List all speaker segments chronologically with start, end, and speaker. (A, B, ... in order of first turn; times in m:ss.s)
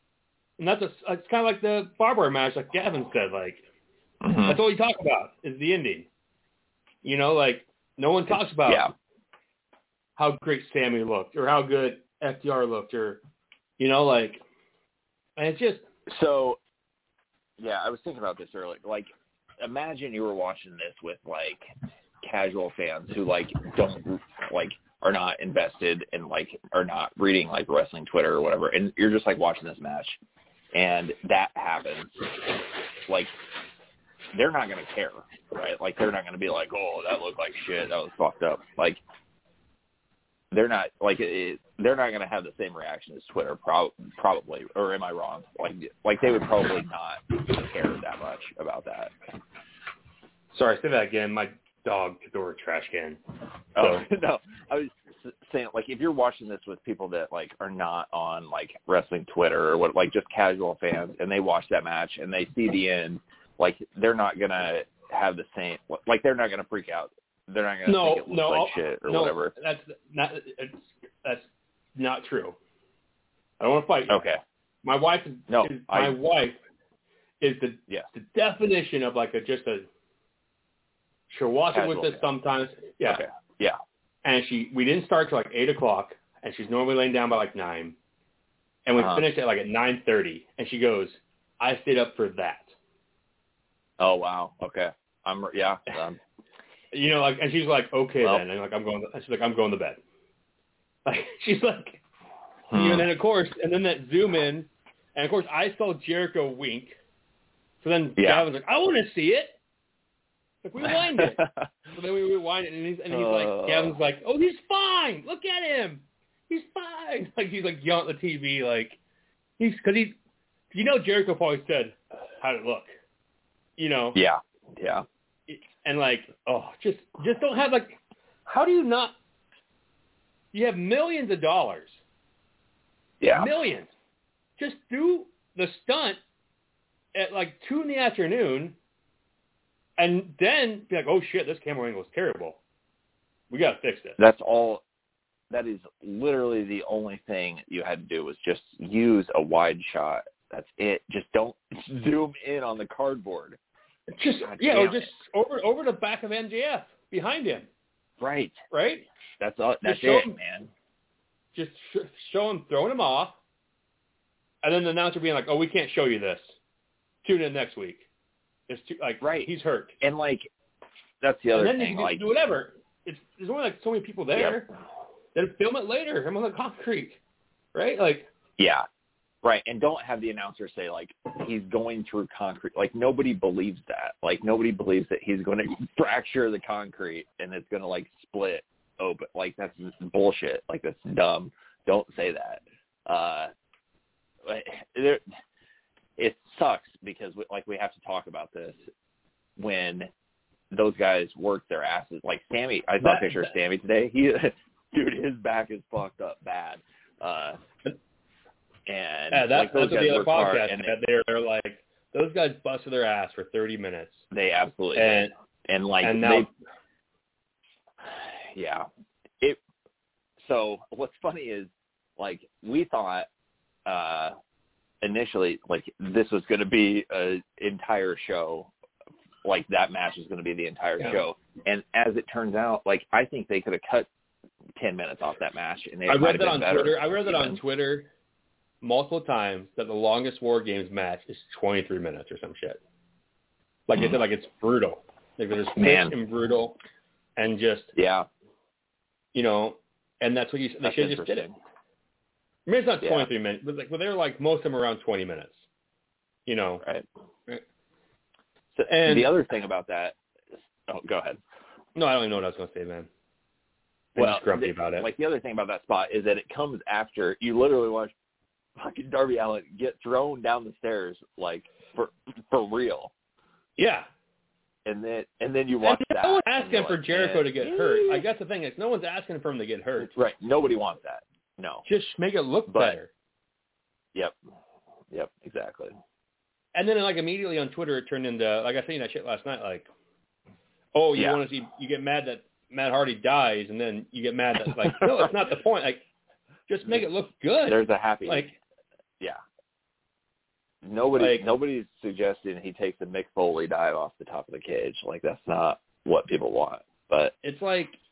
0:00.6-0:03.6 A
0:04.2-0:04.6 B
0:04.4-0:06.1 A
0:07.0-0:08.9 A
0:08.3-0:08.9 B
0:10.2-0:13.2 A
0:13.8-0:14.4 A
0:15.4-0:15.9 A
0:16.1-0:16.6 B
0:17.6-0:21.7 B
0:22.2-0:30.2 B
0:30.7-0:32.2 B
0:33.1-0:33.3 B
0:34.3-0:39.0 B
0:40.5-0:49.1 B
0:50.5-0:53.2 A
0:53.8-1:09.5 B
0:53.8-0:54.0 A
1:07.9-1:12.6 A
1:13.6-1:14.2 A
1:14.1-1:14.4 B
1:14.8-1:16.6 A
1:15.5-1:16.2 B
1:17.4-1:19.9 A
1:21.3-1:23.2 A
1:21.7-1:22.2 B
1:23.1-1:23.8 B
1:24.2-1:28.0 A
1:28.9-1:32.7 A
1:29.0-1:29.3 B
1:34.0-1:36.2 B
1:36.9-1:40.0 A
1:41.1-1:42.0 A
1:42.7-1:43.1 B
1:42.7-1:47.0 A
1:47.8-1:49.6 A
1:48.2-1:48.5 B
1:50.6-1:51.4 A
1:50.8-1:51.7 B
1:51.9-1:59.0 A
1:53.1-1:54.0 B
1:59.6-2:00.2 A
2:00.7-2:02.9 A
2:03.8-2:04.2 A
2:04.2-2:05.0 B
2:05.5-2:09.2 A
2:10.5-2:12.0 A
2:13.2-2:13.5 B
2:13.3-2:13.9 A
2:14.6-2:16.2 A
2:17.1-2:18.8 A
2:20.0-2:22.6 A
2:23.5-2:24.2 A
2:24.2-2:24.8 B
2:25.5-2:33.6 B
2:34.1-2:37.7 A
2:34.4-2:35.1 B
2:38.2-2:38.6 B
2:38.7-2:39.1 A
2:39.4-2:40.7 B
2:39.8-2:40.3 A
2:41.6-2:43.4 A
2:44.6-2:46.6 A
2:47.2-2:48.0 A
2:48.7-2:50.0 A
2:49.2-2:49.5 B
2:50.0-2:50.5 B
2:51.2-2:52.2 B
2:51.5-2:54.7 A
2:54.3-2:54.6 B
2:55.4-2:57.2 A
2:57.7-2:58.3 A
2:58.6-2:58.9 B
2:59.4-3:13.5 B
3:14.4-3:15.2 B
3:16.2-3:18.8 B
3:19.6-3:20.1 B
3:20.7-3:27.6 B
3:23.0-3:23.5 A
3:28.9-3:31.0 B
3:29.3-3:34.2 A
3:34.3-3:36.5 B
3:35.0-3:35.3 A
3:36.0-3:36.5 A
3:38.0-3:38.9 B
3:40.4-3:43.3 B
3:43.9-3:44.3 B
3:45.0-3:48.7 B
3:49.4-3:54.1 B
3:54.8-3:57.6 B
3:56.1-3:58.1 A
3:58.8-4:02.8 A
4:03.9-4:06.8 A
4:05.8-4:06.2 B
4:07.4-4:07.9 A
4:08.0-4:08.3 B
4:09.3-4:11.5 A
4:10.8-4:11.6 B
4:12.7-4:15.6 A
4:13.0-4:13.3 B
4:16.5-4:16.8 A
4:18.8-4:20.2 B
4:18.9-4:19.3 A
4:20.9-4:21.4 B
4:22.0-4:23.1 A
4:24.2-4:25.1 A
4:24.2-4:28.1 B
4:28.8-4:33.1 B
4:33.8-4:34.1 A
4:34.8-4:38.2 B
4:35.8-4:40.1 A
4:40.0-4:41.9 B
4:41.9-4:43.1 A
4:42.7-4:43.0 B
4:45.1-4:45.9 B
4:46.7-4:49.9 A
4:50.9-4:56.0 A
4:54.7-4:55.3 B
4:56.7-4:58.5 A
4:57.7-4:58.6 B
5:00.8-5:07.3 B
5:01.2-5:01.4 A
5:07.4-5:08.0 A